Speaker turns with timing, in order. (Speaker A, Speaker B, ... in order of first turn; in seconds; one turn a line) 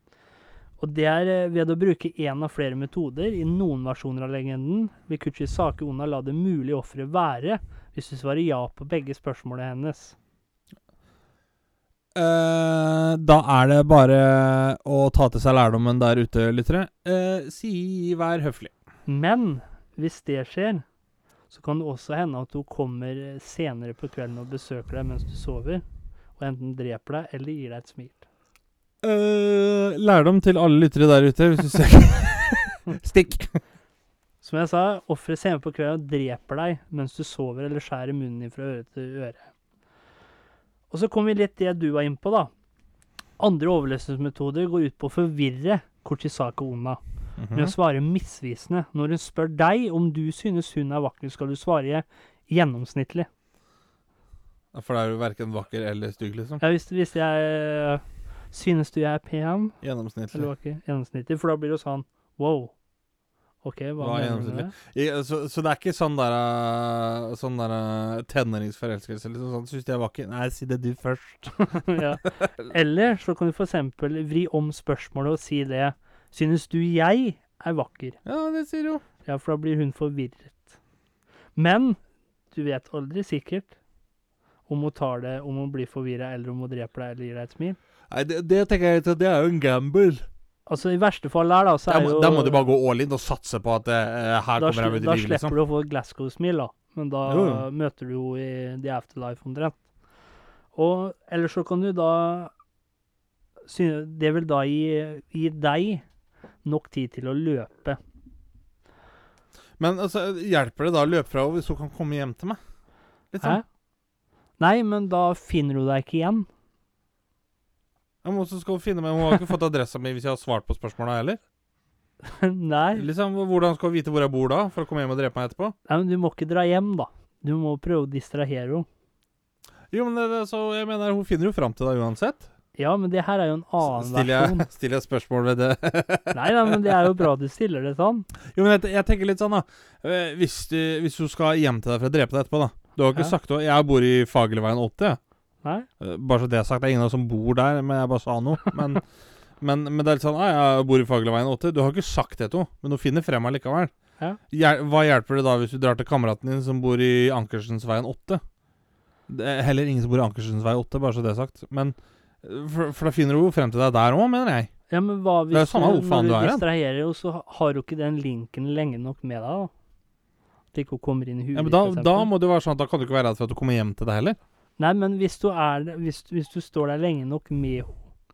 Speaker A: 0.8-10.2
Speaker B: 12.2-18.7
Speaker A: 19.1-20.8
Speaker A: 21.5-25.8
Speaker A: 26.4-28.2
Speaker B: 29.0-33.6
Speaker A: 34.4-39.5
Speaker A: 40.9-42.5
Speaker A: 43.4-47.0
Speaker B: 47.4-47.7
Speaker A: 47.5-53.3
Speaker B: 54.7-56.6
Speaker A: 56.6-59.8
Speaker B: 59.8-60.5
Speaker A: 60.3-62.7
Speaker A: 63.6-64.7
Speaker B: 64.0-72.7
Speaker A: 71.6-78.2
Speaker B: 78.3-79.0
Speaker A: 79.3-80.7
Speaker A: 81.6-82.0
Speaker A: 82.5-83.7
Speaker A: 84.7-87.8
Speaker B: 88.1-90.2
Speaker A: 90.7-92.7
Speaker B: 91.9-95.5
Speaker A: 94.6-99.8
Speaker B: 97.3-97.7
Speaker A: 100.8-102.5
Speaker A: 103.7-106.0
Speaker A: 106.6-108.0
Speaker B: 109.8-112.6
Speaker B: 113.3-113.6
Speaker A: 114.6-116.5
Speaker B: 118.2-121.4
Speaker A: 122.2-123.1
Speaker B: 123.0-125.8
Speaker A: 125.9-128.9
Speaker B: 129.9-132.5
Speaker A: 132.8-134.7
Speaker B: 133.8-137.0
Speaker A: 136.3-138.3
Speaker B: 138.5-145.2
Speaker B: 146.0-149.0
Speaker B: 149.6-153.9
Speaker B: 154.5-158.4
Speaker B: 159.3-164.7
Speaker A: 164.9-169.7
Speaker B: 165.5-166.6
Speaker A: 170.7-172.3
Speaker B: 171.6-174.4
Speaker A: 174.8-178.0